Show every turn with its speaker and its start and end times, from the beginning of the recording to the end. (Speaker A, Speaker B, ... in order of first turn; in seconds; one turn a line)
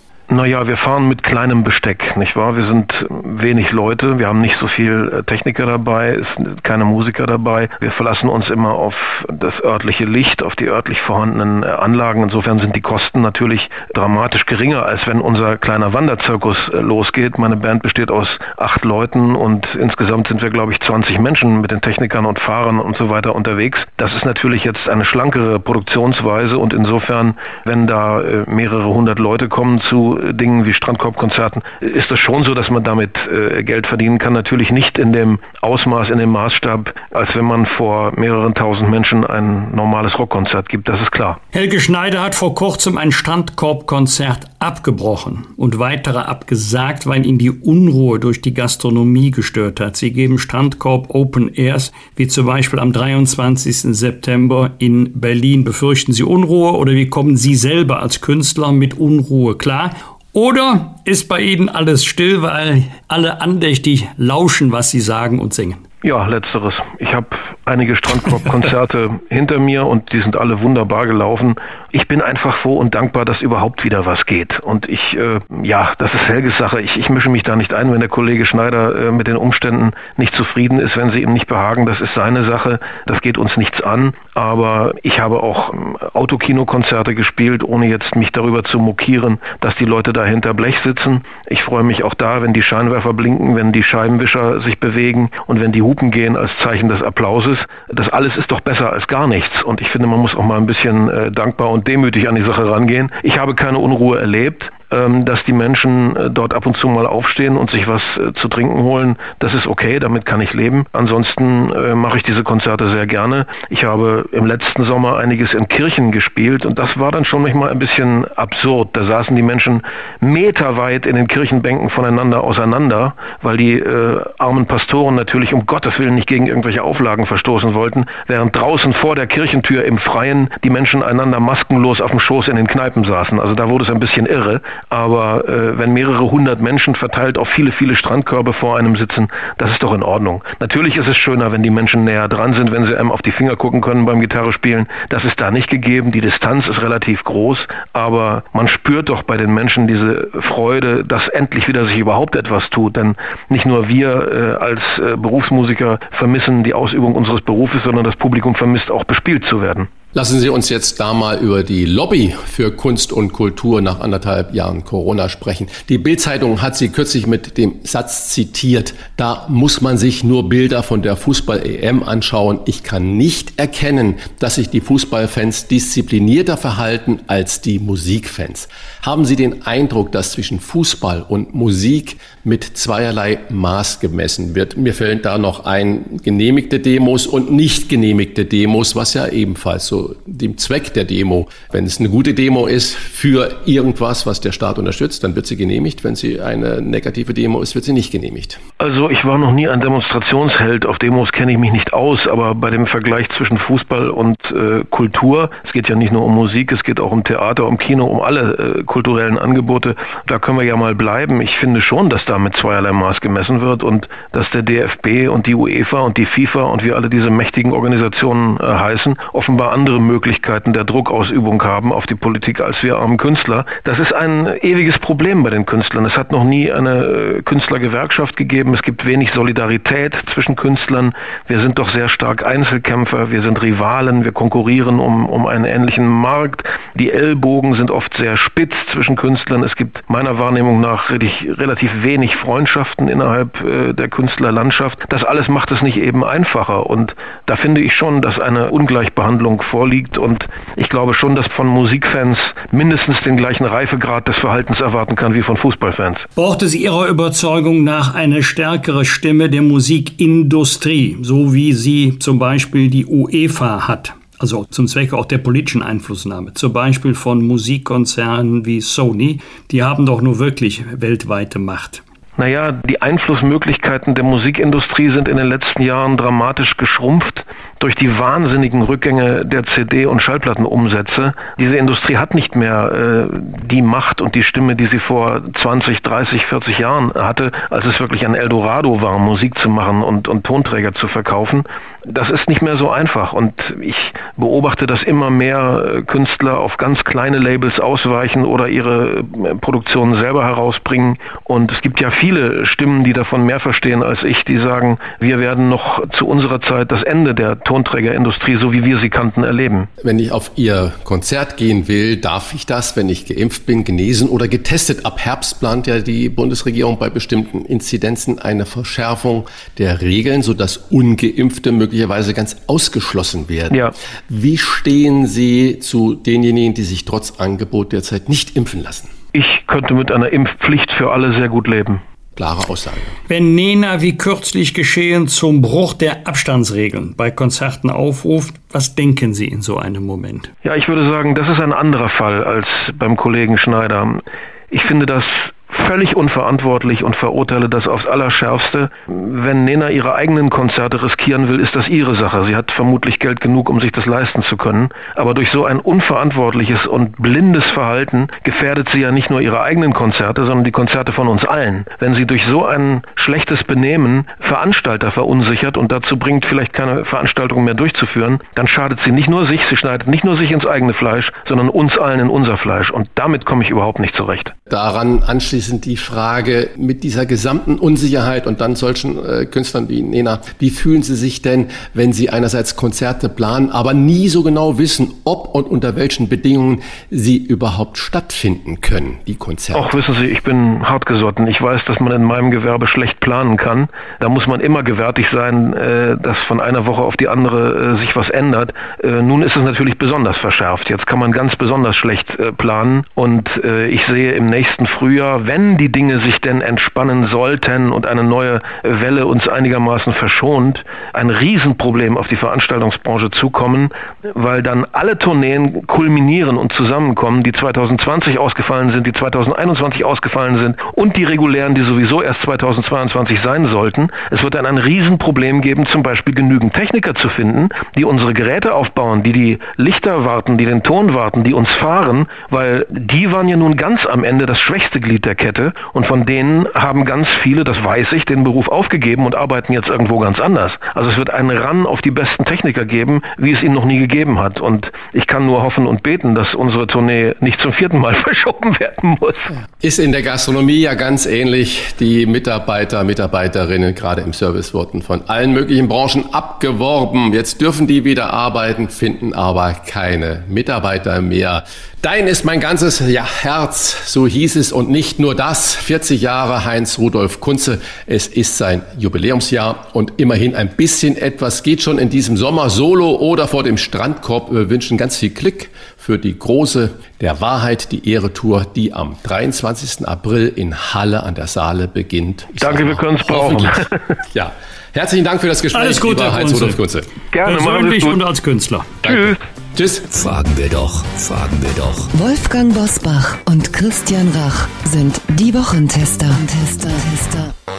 Speaker A: 0.3-41.4
Speaker B: 41.5-65.8
Speaker A: 66.0-159.9
Speaker C: 160.1-198.6
Speaker A: 198.8-256.2
Speaker B: 256.4-272.0
Speaker A: 272.4-309.9
Speaker C: 310.0-329.1
Speaker A: 329.3-332.0
Speaker C: 332.4-333.2
Speaker B: 333.3-340.5
Speaker A: 340.6-374.5
Speaker C: 374.7-390.0
Speaker A: 389.7-449.5
Speaker C: 449.8-487.1
Speaker A: 482.6-484.0
Speaker B: 485.7-486.8
Speaker A: 487.3-488.2
Speaker B: 487.4-489.0
Speaker C: 489.0-490.1
Speaker A: 489.1-489.4
Speaker D: 490.1-492.1
Speaker E: 492.1-497.5